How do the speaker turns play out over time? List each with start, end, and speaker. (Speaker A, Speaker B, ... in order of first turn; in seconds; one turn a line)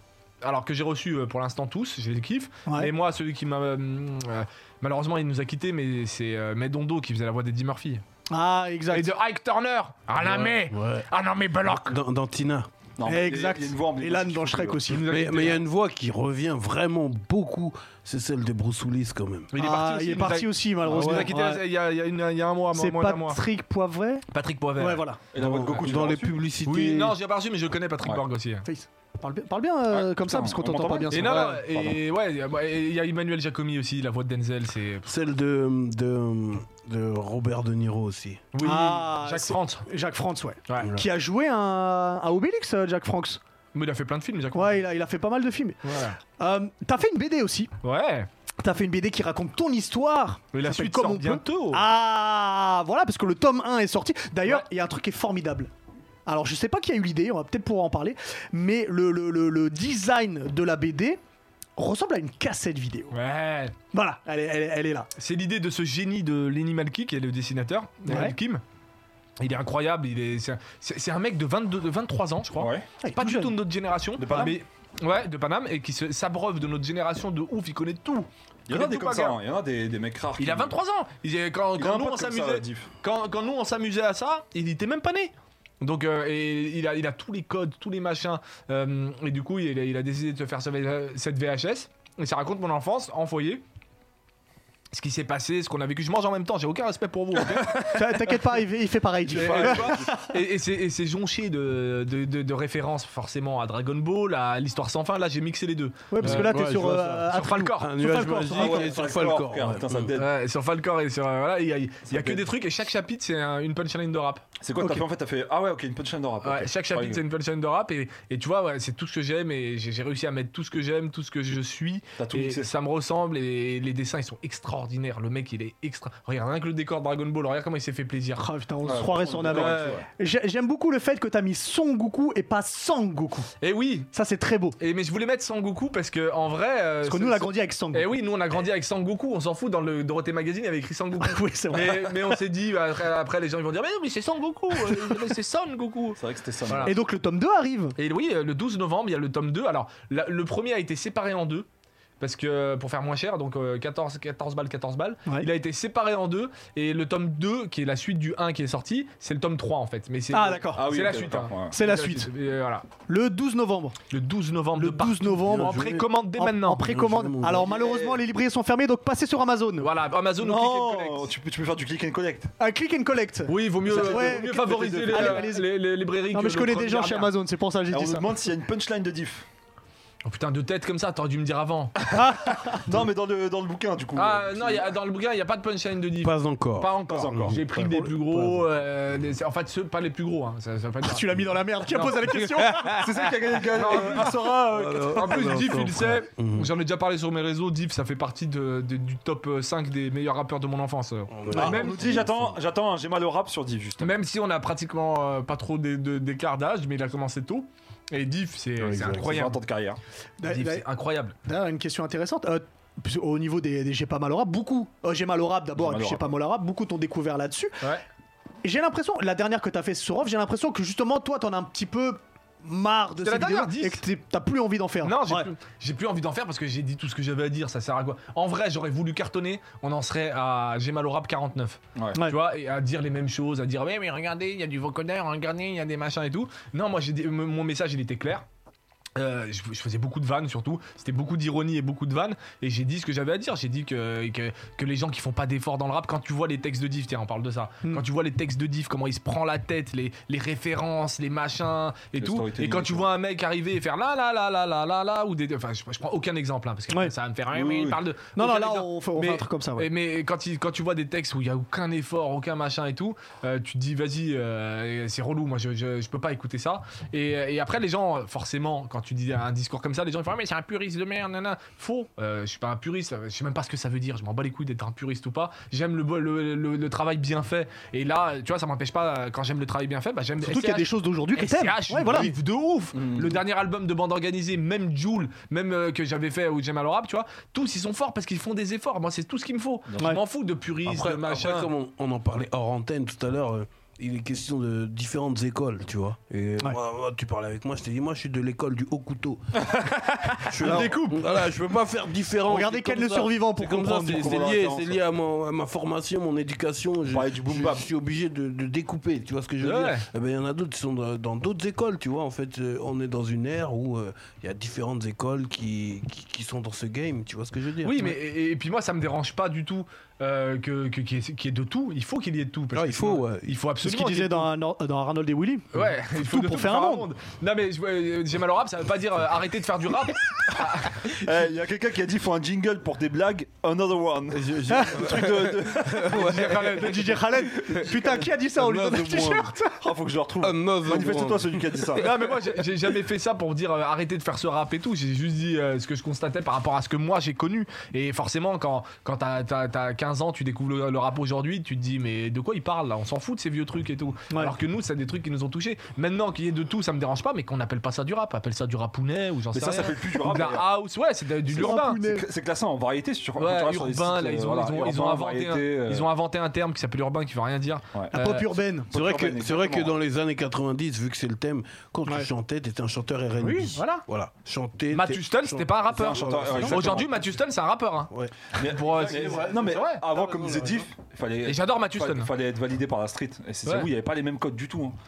Speaker A: 0.4-8.0
Speaker B: 8.3-9.1
Speaker A: 8.9-12.0
Speaker C: 10.2-11.1
Speaker C: 11.6-12.7
Speaker D: 13.0-15.0
Speaker B: 13.1-15.1
Speaker A: 14.9-15.6
Speaker C: 15.0-19.5
Speaker A: 19.5-23.4
Speaker B: 19.6-21.6
Speaker C: 20.9-21.3
Speaker B: 22.7-25.2
Speaker A: 24.3-25.1
Speaker D: 25.3-26.4
Speaker C: 25.4-27.1
Speaker A: 26.6-28.7
Speaker B: 28.7-31.6
Speaker D: 29.9-31.5
Speaker A: 31.1-35.1
Speaker C: 31.3-31.9
Speaker C: 35.0-38.5
Speaker A: 38.5-39.9
Speaker B: 38.6-43.4
Speaker A: 43.7-44.9
Speaker B: 44.5-45.8
Speaker A: 45.8-46.2
Speaker B: 46.4-47.7
Speaker A: 47.8-48.3
Speaker B: 48.6-55.7
Speaker A: 50.5-51.8
Speaker B: 56.3-61.2
Speaker B: 61.8-63.1
Speaker A: 63.1-63.8
Speaker B: 63.9-65.1
Speaker A: 65.2-68.6
Speaker B: 68.1-68.3
Speaker A: 69.4-79.4
Speaker D: 72.5-72.9
Speaker B: 73.0-73.5
Speaker D: 74.2-74.6
Speaker B: 74.3-74.5
Speaker D: 78.7-80.7
Speaker A: 80.4-93.6
Speaker D: 81.8-82.9
Speaker A: 94.9-98.3
Speaker B: 97.8-100.3
Speaker D: 99.3-100.2
Speaker A: 99.4-106.5
Speaker B: 106.1-109.0
Speaker C: 106.2-110.1
Speaker A: 107.3-107.9
Speaker D: 108.5-110.3
Speaker A: 110.1-114.4
Speaker D: 112.1-112.4
Speaker D: 114.6-117.2
Speaker A: 116.4-128.5
Speaker D: 122.2-122.7
Speaker B: 128.4-133.5
Speaker D: 128.8-130.1
Speaker A: 129.5-130.0
Speaker A: 133.6-134.1
Speaker B: 134.1-134.8
Speaker A: 134.8-146.9
Speaker B: 137.0-138.1
Speaker B: 141.2-142.4
Speaker B: 144.7-145.2
Speaker D: 146.2-146.9
Speaker B: 146.8-147.9
Speaker A: 147.9-151.7
Speaker A: 152.2-162.9
Speaker B: 160.3-160.9
Speaker D: 160.7-161.8
Speaker B: 161.7-162.3
Speaker B: 163.1-164.0
Speaker A: 164.1-166.8
Speaker B: 164.8-169.9
Speaker C: 165.5-166.1
Speaker C: 166.8-167.7
Speaker D: 167.5-168.2
Speaker A: 169.8-171.3
Speaker D: 170.4-172.5
Speaker B: 172.6-175.7
Speaker A: 173.5-177.3
Speaker D: 173.9-175.5
Speaker B: 176.3-178.4
Speaker D: 177.9-179.5
Speaker A: 180.2-182.0
Speaker B: 182.1-182.8
Speaker D: 182.2-184.9
Speaker A: 184.1-192.7
Speaker C: 186.2-188.7
Speaker D: 187.1-187.6
Speaker B: 191.0-193.1
Speaker C: 192.6-193.2
Speaker D: 192.9-194.7
Speaker A: 193.7-202.2
Speaker C: 194.1-196.7
Speaker C: 201.3-202.5
Speaker D: 201.5-204.2
Speaker A: 204.0-209.6
Speaker C: 208.8-209.4
Speaker D: 209.1-210.0
Speaker B: 210.4-210.9
Speaker A: 210.4-211.4
Speaker B: 211.4-217.8
Speaker D: 215.7-216.3
Speaker B: 218.6-225.5
Speaker A: 223.2-224.0
Speaker A: 225.0-238.4
Speaker D: 231.9-232.2
Speaker A: 239.2-291.7
Speaker D: 252.2-253.1
Speaker D: 257.5-258.0
Speaker B: 258.4-259.9
Speaker B: 280.4-282.3
Speaker D: 282.9-283.4
Speaker D: 289.9-290.2
Speaker C: 290.8-299.7
Speaker A: 300.2-301.3
Speaker C: 300.4-318.2
Speaker B: 300.6-300.9
Speaker B: 302.4-304.4
Speaker D: 304.0-305.0
Speaker D: 307.1-307.9
Speaker A: 309.6-310.1
Speaker A: 317.8-324.5
Speaker C: 322.7-323.6
Speaker B: 323.8-327.1
Speaker A: 325.7-331.1
Speaker D: 330.9-336.3
Speaker C: 334.3-337.1
Speaker B: 334.7-335.1
Speaker A: 336.0-337.2
Speaker B: 336.9-339.8
Speaker C: 337.6-339.5
Speaker D: 339.8-342.1
Speaker C: 340.4-341.9
Speaker A: 341.9-362.0
Speaker D: 359.5-360.7
Speaker D: 361.5-366.1
Speaker B: 361.5-362.3
Speaker A: 363.4-368.5
Speaker B: 368.1-368.9
Speaker D: 368.9-369.9
Speaker C: 368.9-377.0
Speaker B: 373.4-374.0
Speaker A: 373.8-374.0
Speaker A: 374.9-380.0
Speaker D: 375.9-377.1
Speaker C: 378.1-380.7
Speaker D: 378.6-384.9
Speaker A: 381.4-382.3